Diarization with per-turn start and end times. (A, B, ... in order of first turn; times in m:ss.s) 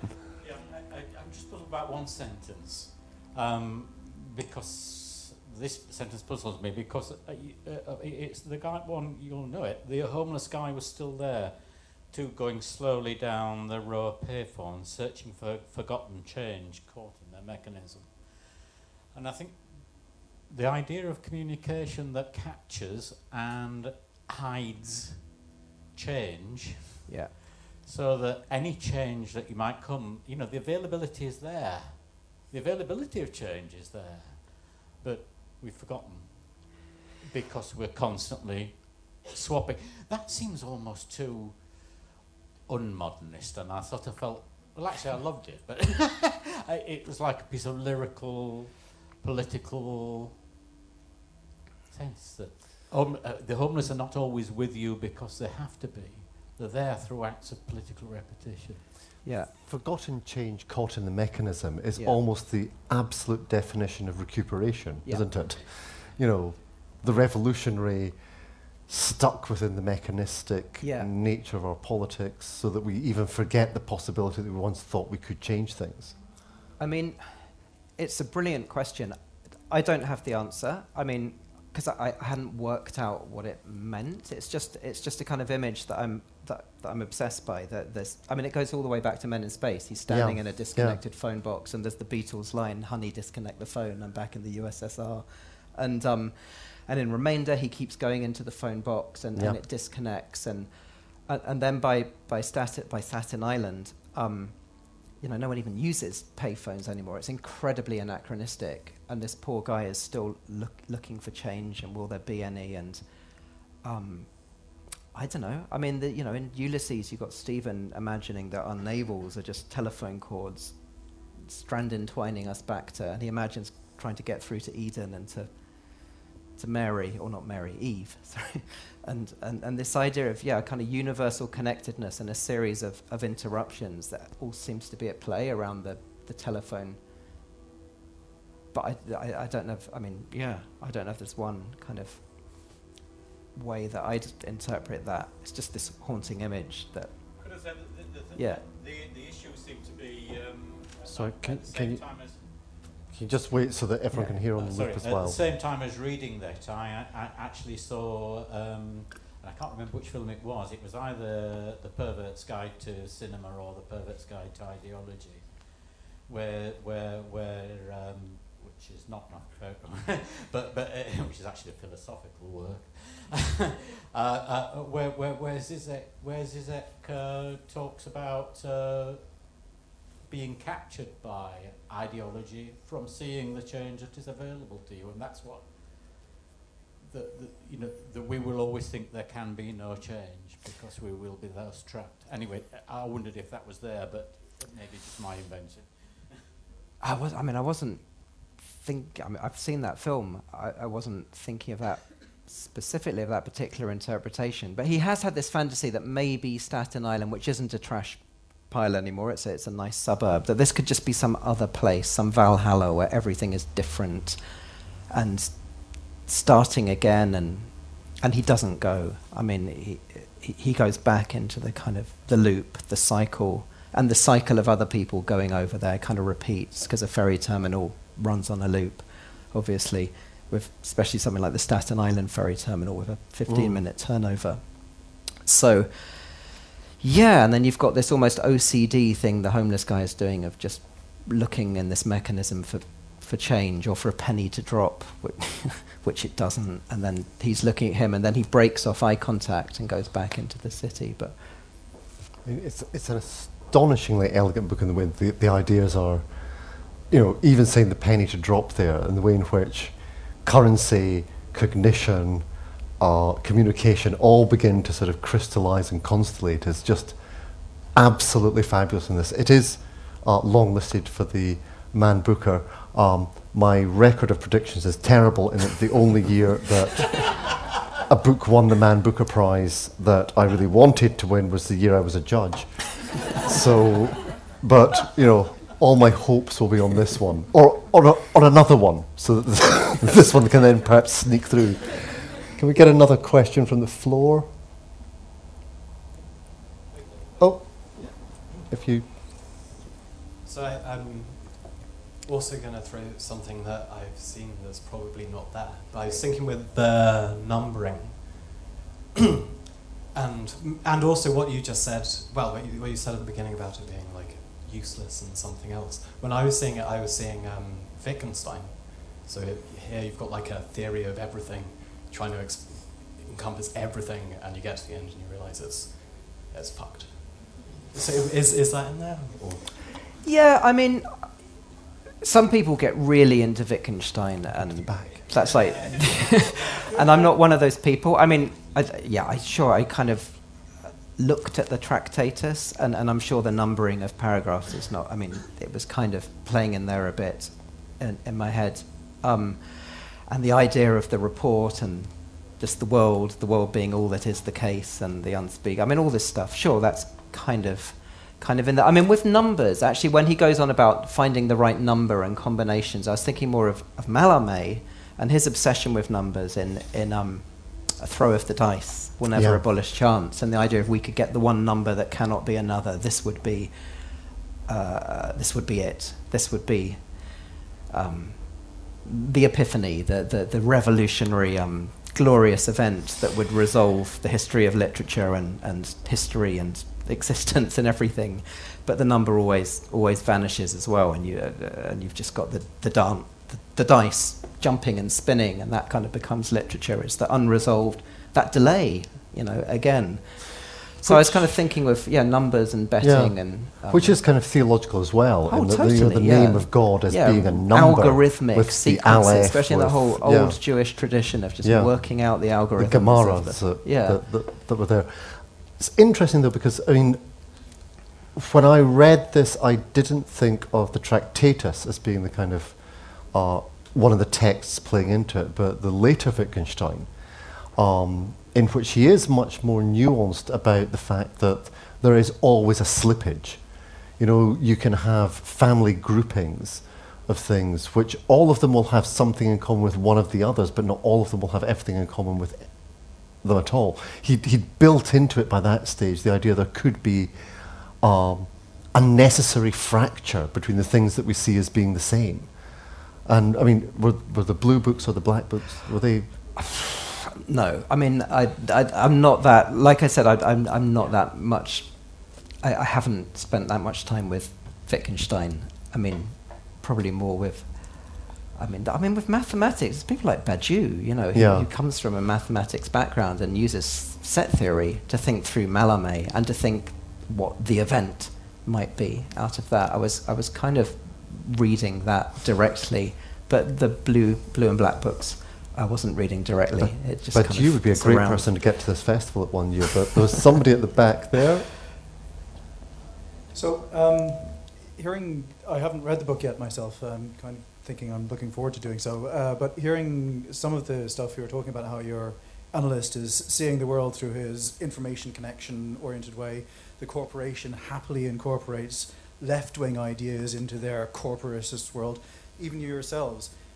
0:00.4-0:25.4 A
0:25.9-0:27.0 A
0:27.1-0:27.3 B
0:27.8-0:42.0 A
0:42.6-0:50.4 A
0:51.9-0:59.1 A
0:59.2-0:59.5 B
0:59.6-1:08.2 C
1:08.8-1:16.2 C
1:10.8-1:11.1 B
1:16.8-1:19.2 B
1:19.7-1:40.7 B
1:30.1-1:31.0 C
1:41.3-1:44.6 B
1:45.2-1:53.0 B
1:53.8-1:54.5 B
1:55.1-2:00.8 B
2:01.4-2:05.5 B
2:06.6-2:17.0 B
2:18.7-2:22.8 B
2:23.5-2:27.1 B
2:27.4-2:32.8 A
2:28.3-2:28.6 B
2:31.1-2:32.0 C
2:33.1-2:35.4 C
2:34.1-2:34.4 B
2:34.3-2:59.5 A
3:00.3-3:06.2 A
3:07.0-3:16.3 A
3:17.0-3:34.4 B
3:35.1-3:56.4 B
3:53.5-3:53.8 C
3:57.0-4:11.4 B
4:12.4-4:16.3 C
4:17.1-4:22.4 C
4:23.0-4:27.2 C
4:27.8-4:54.5 C
4:57.4-4:59.1 C
4:58.0-4:58.6 D
5:00.4-5:08.6 D
5:10.1-5:29.8 D
5:30.2-5:31.6 B
5:32.2-6:13.7 B
5:34.7-5:35.2 C
6:09.3-6:09.6 C
6:14.6-6:44.2 B
6:41.0-6:41.4 C
6:43.0-6:50.8 C
6:45.5-6:54.2 B
6:51.6-7:07.1 C
7:07.7-7:13.6 C
7:14.2-7:27.3 C
7:28.0-7:32.6 C
7:33.2-7:36.3 C
7:36.6-8:08.5 B
7:51.3-7:51.7 C
8:06.8-8:11.8 C
8:13.5-8:33.6 E